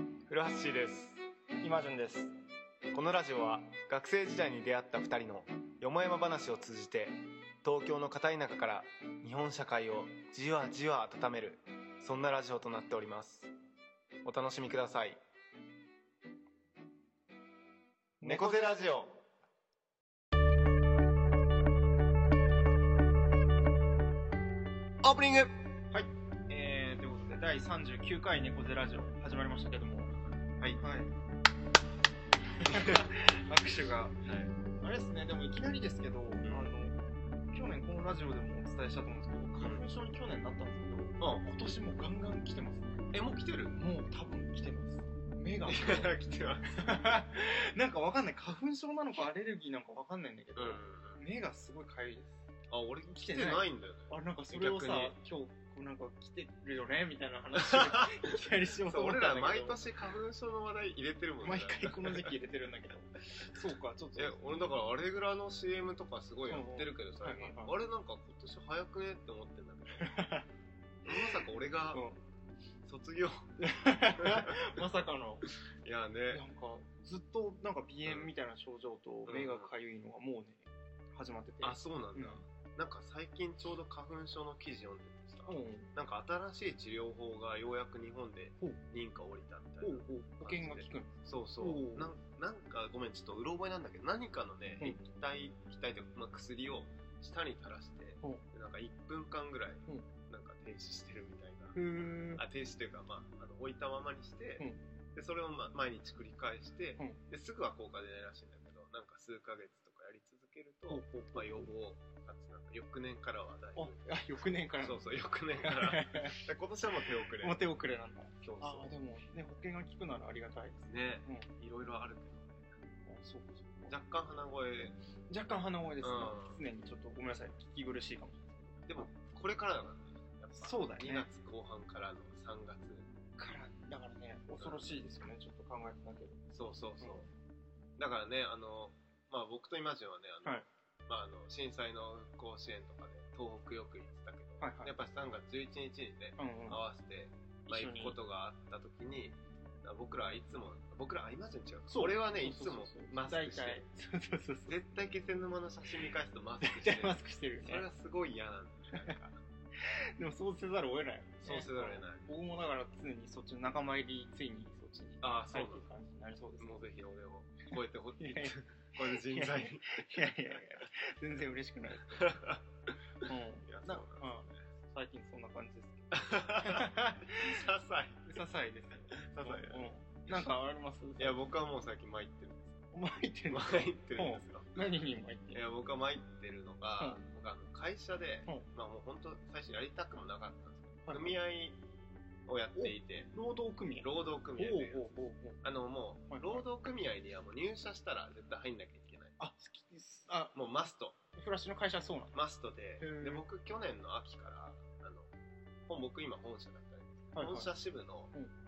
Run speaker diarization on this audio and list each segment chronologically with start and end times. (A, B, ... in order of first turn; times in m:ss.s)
0:00.3-0:01.2 A
0:01.6-0:02.3 B
0:02.9-0:13.5 A
0:14.2-0:15.2 A
0:18.2-0:18.8 B
0:18.2-0:19.2 A
0:25.0-0:25.5 A
0:25.9-0:30.1 B
0:30.8-0:31.1 B
0:32.6-0:34.2 B
0:32.7-0:33.1 A
0:34.2-0:34.5 A
0:34.8-0:37.0 B
0:36.4-0:36.7 A
0:37.5-0:43.1 B
0:39.6-0:39.8 A
0:41.2-0:41.6 A
0:43.1-0:43.8 A
0:43.8-0:46.2 B
0:45.7-0:47.3 A
0:46.8-0:52.5 B
0:50.6-0:51.2 A
0:52.7-0:55.2 A
0:53.1-0:59.8 B
0:57.6-0:58.2 A
0:58.7-1:02.3 A
1:01.4-1:04.4 B
1:04.2-1:10.1 A
1:06.5-1:07.8 B
1:09.9-1:10.5 B
1:11.0-1:12.0 A
1:11.1-1:12.2 B
1:12.8-1:14.8 A
1:13.6-1:15.5 B
1:15.7-1:16.4 A
1:16.3-1:22.4 B
1:18.1-1:18.3 A
1:19.3-1:19.7 A
1:21.6-1:57.6 A
1:25.5-1:25.9 B
1:29.8-1:32.1 B
1:34.8-1:35.0 B
1:41.8-1:42.4 B
1:50.9-1:51.7 B
1:53.8-1:55.1 B
1:55.6-1:56.4 B
1:57.4-2:01.5 B
1:58.4-1:59.0 A
2:00.9-2:02.7 A
2:03.1-2:03.9 B
2:03.9-2:05.0 A
2:05.3-2:09.1 B
2:06.0-2:06.6 A
2:08.9-2:13.1 A
2:10.5-2:11.3 B
2:13.4-2:16.5 B
2:14.6-2:14.9 A
2:16.5-2:17.3 A
2:17.0-2:17.3 B
2:18.0-2:33.8 A
2:24.6-2:24.9 B
2:26.4-2:26.8 B
2:27.7-2:28.2 B
2:31.9-2:34.8 B
2:34.7-2:39.4 A
2:36.6-2:37.9 B
2:39.8-2:46.9 B
2:41.4-2:42.3 A
2:45.2-2:45.9 A
2:46.6-2:50.6 A
2:48.2-2:52.4 B
2:52.1-2:52.6 A
2:53.2-2:57.6 B
2:53.6-2:54.6 A
2:56.1-3:00.5 A
2:58.3-3:01.5 B
3:01.2-3:02.8 A
3:02.9-3:05.6 B
3:03.5-3:04.7 A
3:05.5-3:11.8 A
3:11.0-3:11.4 B
3:12.5-3:13.3 A
3:12.8-3:15.6 B
3:14.0-3:19.4 A
3:16.3-3:16.6 B
3:19.4-3:20.6 B
3:20.5-3:21.2 A
3:21.3-3:22.4 B
3:22.3-3:25.3 A
3:23.0-3:23.4 B
3:25.9-3:28.3 A
3:27.4-3:27.7 B